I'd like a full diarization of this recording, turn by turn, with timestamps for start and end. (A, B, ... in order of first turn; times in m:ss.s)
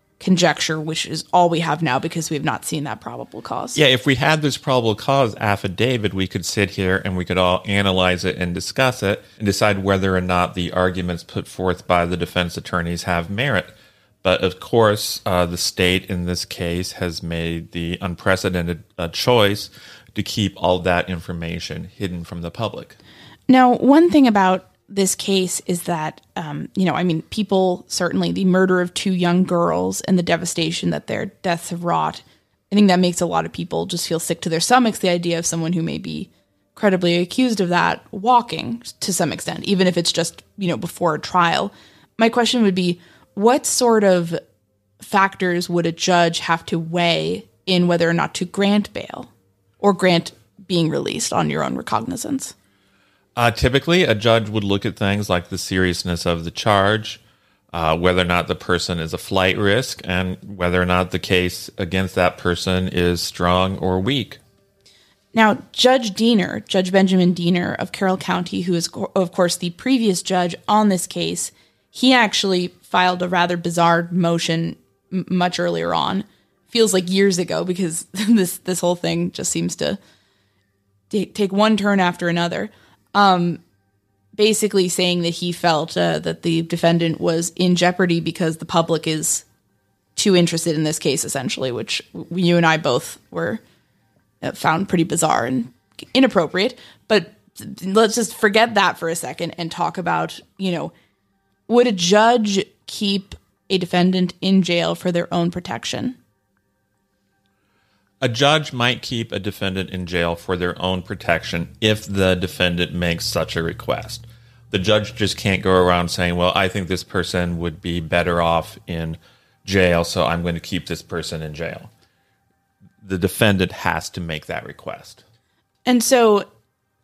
0:00.2-0:03.8 A
0:03.8-0:13.7 B
0:14.2-0:23.0 B
0:23.5-0:44.4 A
0:45.0-0:52.5 A
0:53.4-0:57.2 B
0:57.7-1:04.4 B
1:05.3-1:20.0 A
1:21.1-1:23.6 A
1:24.4-1:29.4 A
1:30.2-1:33.6 A
1:34.4-1:40.9 A
1:41.7-1:46.2 A
1:48.2-2:01.9 B
2:03.0-2:05.2 B
2:05.8-2:06.5 A